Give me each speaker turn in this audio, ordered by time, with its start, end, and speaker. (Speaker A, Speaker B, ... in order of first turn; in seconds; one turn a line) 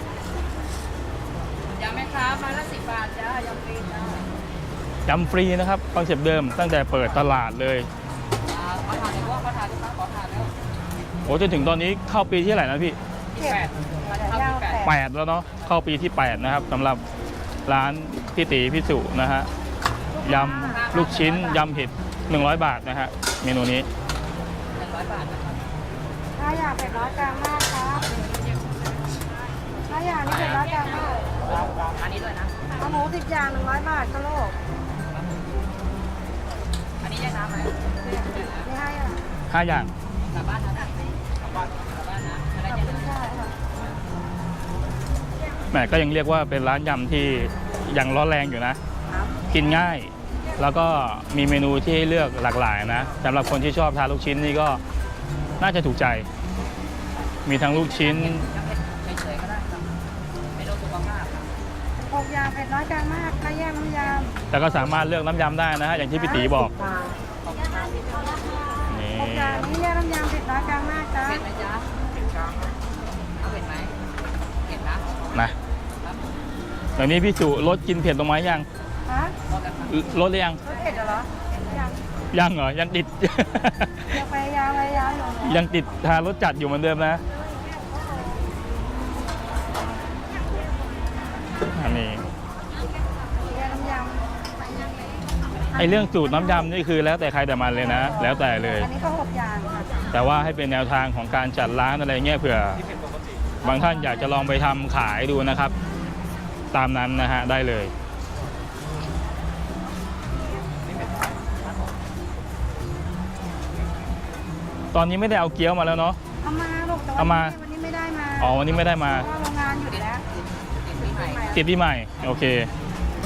Speaker A: 1.7-4.3
Speaker B: 5.0-7.9
Speaker A: 8.5-10.5
Speaker B: 11.2-13.0
Speaker A: 13.3-14.8
Speaker C: 13.4-15.0
Speaker B: 14.8-17.0
Speaker B: 17.6-19.5
Speaker C: 20.1-20.9
Speaker B: 20.2-23.9
Speaker A: 20.5-21.7
Speaker A: 24.7-25.7
Speaker C: 26.4-28.1
Speaker A: 28.1-28.5
Speaker C: 29.9-31.4
Speaker A: 30.3-30.6
Speaker A: 31.9-32.6
Speaker C: 32.7-34.6
Speaker A: 35.1-35.4
Speaker A: 37.0-38.7
Speaker C: 38.5-39.3
Speaker B: 39.5-39.9
Speaker A: 40.2-43.1
Speaker C: 42.6-43.5
Speaker B: 45.7-48.8
Speaker C: 49.1-49.6
Speaker B: 49.5-54.8
Speaker B: 55.6-56.3
Speaker B: 57.5-58.5
Speaker A: 57.8-59.9
Speaker A: 60.5-61.5
Speaker C: 62.0-64.3
Speaker B: 64.5-66.7
Speaker C: 66.1-67.2
Speaker A: 67.4-68.8
Speaker B: 68.9-69.7
Speaker C: 69.2-71.4
Speaker A: 71.2-71.9
Speaker A: 73.4-74.0
Speaker A: 74.6-75.3
Speaker A: 76.0-76.3
Speaker B: 77.0-78.7
Speaker C: 79.0-79.3
Speaker A: 79.5-80.1
Speaker B: 79.9-80.6
Speaker C: 80.6-82.0
Speaker B: 82.3-84.2
Speaker C: 84.1-85.6
Speaker B: 85.4-87.2
Speaker B: 91.7-92.2
Speaker C: 93.4-94.3
Speaker B: 95.7-98.9
Speaker C: 98.0-99.9
Speaker B: 100.1-102.8
Speaker B: 103.6-105.7
Speaker B: 106.7-107.9
Speaker B: 114.9-116.2
Speaker C: 116.4-120.2
Speaker B: 117.2-117.5
Speaker B: 118.4-119.2
Speaker A: 120.7-121.6
Speaker C: 121.1-121.6
Speaker B: 121.5-122.7